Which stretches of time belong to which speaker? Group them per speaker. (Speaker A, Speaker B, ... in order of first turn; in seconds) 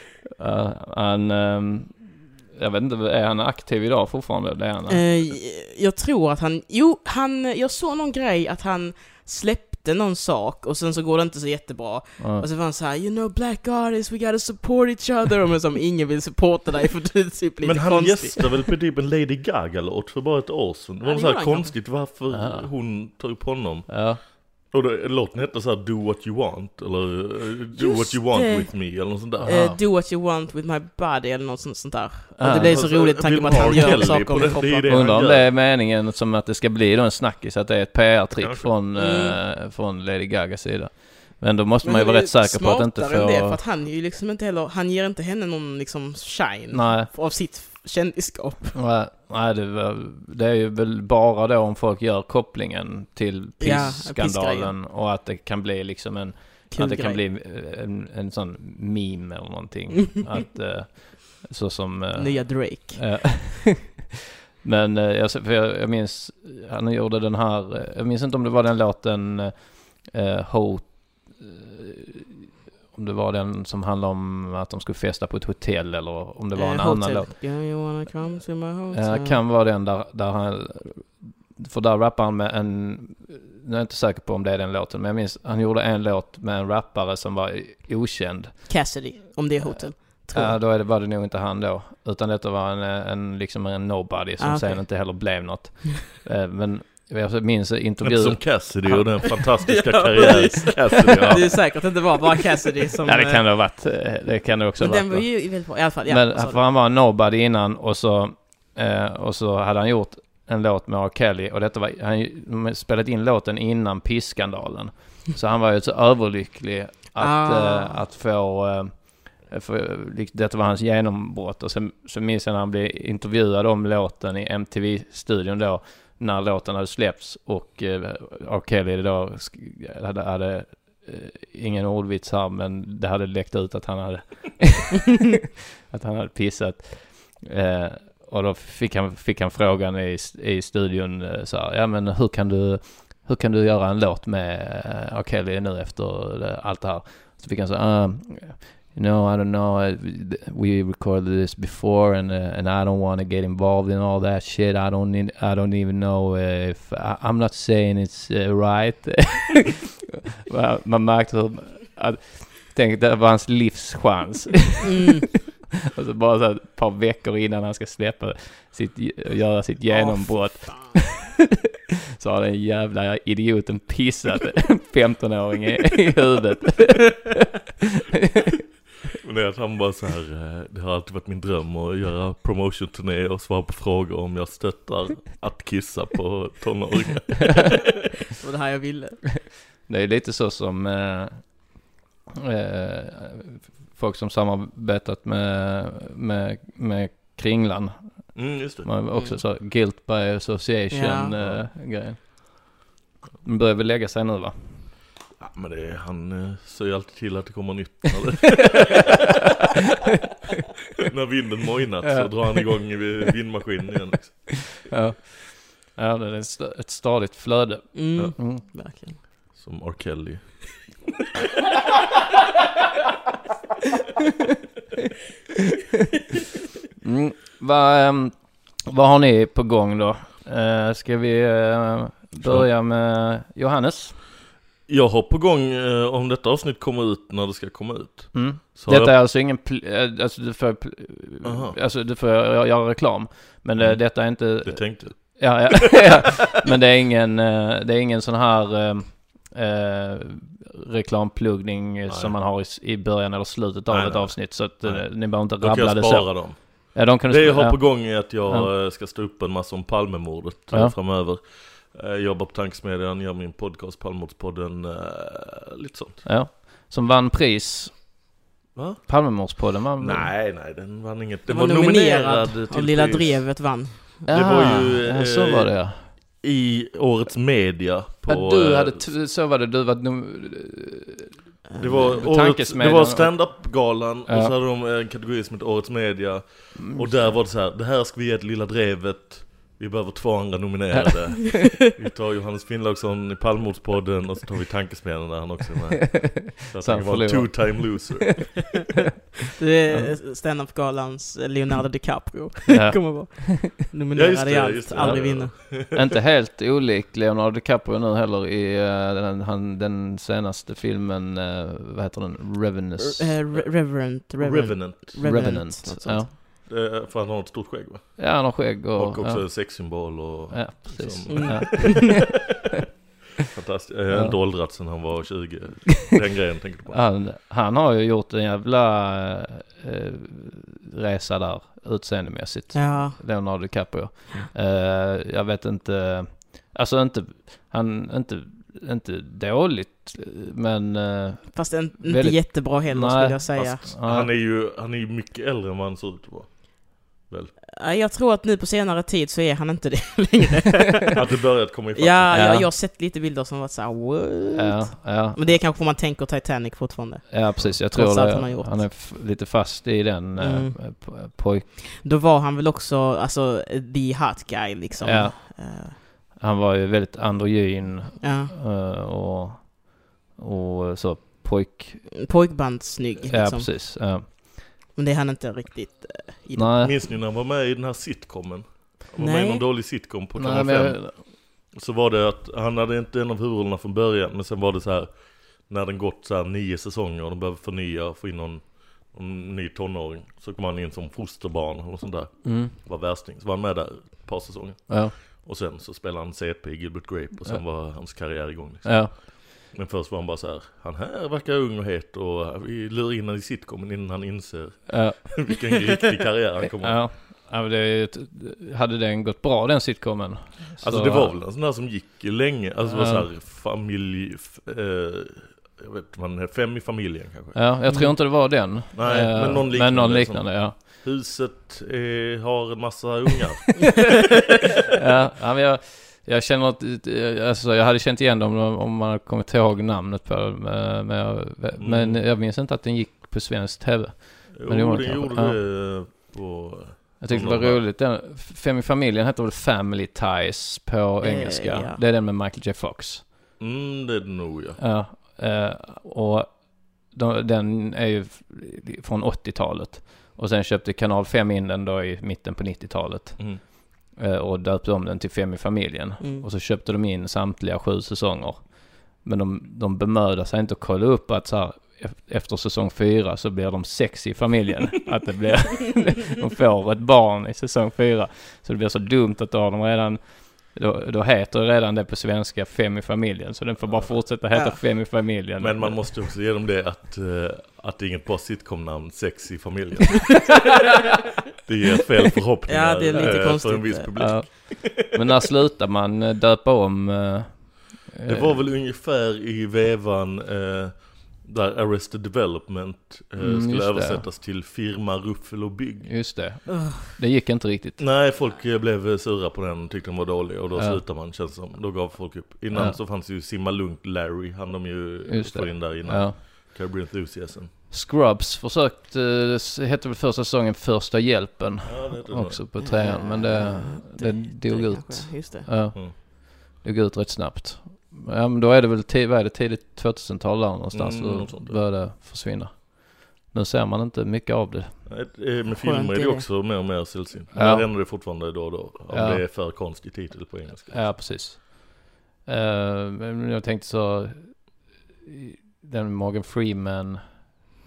Speaker A: 0.4-5.0, 12.2-12.4, 22.3-22.7, 23.9-24.2, 29.4-29.8, 32.4-32.8, 34.9-43.6, 46.7-47.1, 48.8-64.0, 64.6-72.2, 72.9-77.3, 78.9-99.5, 103.0-135.2, 135.9-159.8, 160.5-164.8, 165.9-171.3, 172.2-177.3, 189.8-191.9, 192.5-202.8, 203.4-204.9, 212.0-212.6, 214.9-218.6, 227.0-234.2, 238.3-258.7, 260.7-261.0, 266.2-268.2, 269.1-270.3, 274.3-276.1, 278.3-284.5, 286.8-287.4, 296.2-298.1, 299.9-300.1, 302.7-303.4, 304.9-313.3, 315.1-316.3, 318.2-322.4, 324.1-324.4, 326.9-344.3, 352.3-352.7, 354.5-355.6, 357.3-361.7, 365.0-372.1, 373.2-374.7, 376.5-376.9, 380.4-381.2, 392.4-392.7, 394.9-395.1, 397.4-399.1, 404.9-405.6, 406.8-411.4, 412.8-413.3, 417.5-420.8, 425.0-435.6, 437.2-443.3, 444.8-476.2, 483.2-488.6, 493.4-494.3, 496.0-498.0, 500.7-501.0, 502.7-503.0, 505.2-506.7, 507.9-525.0, 527.5-528.5, 529.1-529.4, 530.9-537.6
Speaker B: 4.9-18.6, 21.0-21.8, 27.7-35.1, 38.9-39.4, 41.8-48.8, 53.6-54.7, 56.7-57.2, 60.1-60.4, 62.1-63.5, 76.5-79.4, 88.7-90.6, 94.4-94.9, 99.7-103.5, 104.8-106.7, 117.1-118.0, 164.8-165.3, 169.9-171.2, 188.4-189.2, 199.1-199.4, 200.9-201.3, 217.9-219.2, 271.5-274.6, 281.7-282.2, 299.6-305.5, 313.0-316.4, 321.3-322.2, 332.7-333.2, 341.5-343.9, 347.8-351.2, 351.9-358.9, 360.4-361.2, 361.9-366.0, 368.2-368.5, 372.2-376.9, 379.2-379.6, 417.9-418.2, 441.2-442.0, 456.2-456.5, 474.5-475.3, 482.7-484.5, 496.7-497.2, 512.8-515.8, 525.7-526.5
Speaker C: 17.6-29.5, 32.5-35.5, 38.4-38.8, 98.0-101.9, 179.2-187.7, 198.3-198.9, 201.4-201.7, 205.4-209.1, 211.1-214.7, 219.5-220.9, 232.4-232.7, 234.9-239.2, 241.4-241.8, 243.8-246.2, 252.1-252.3, 253.9-266.2, 268.7-279.1, 281.8-298.4, 304.1-306.1, 313.5-315.2, 316.4-322.3, 323.5-327.0, 343.6-347.5, 351.1-352.3, 376.8-407.1, 410.8-417.6, 418.9-424.0, 431.8-432.2, 434.5-437.9, 443.6-444.8, 453.4-453.6, 473.8-474.2, 475.6-480.3, 481.6-484.9, 488.2-496.3, 498.0-507.7, 511.8-512.7, 520.9-521.9, 525.0-531.2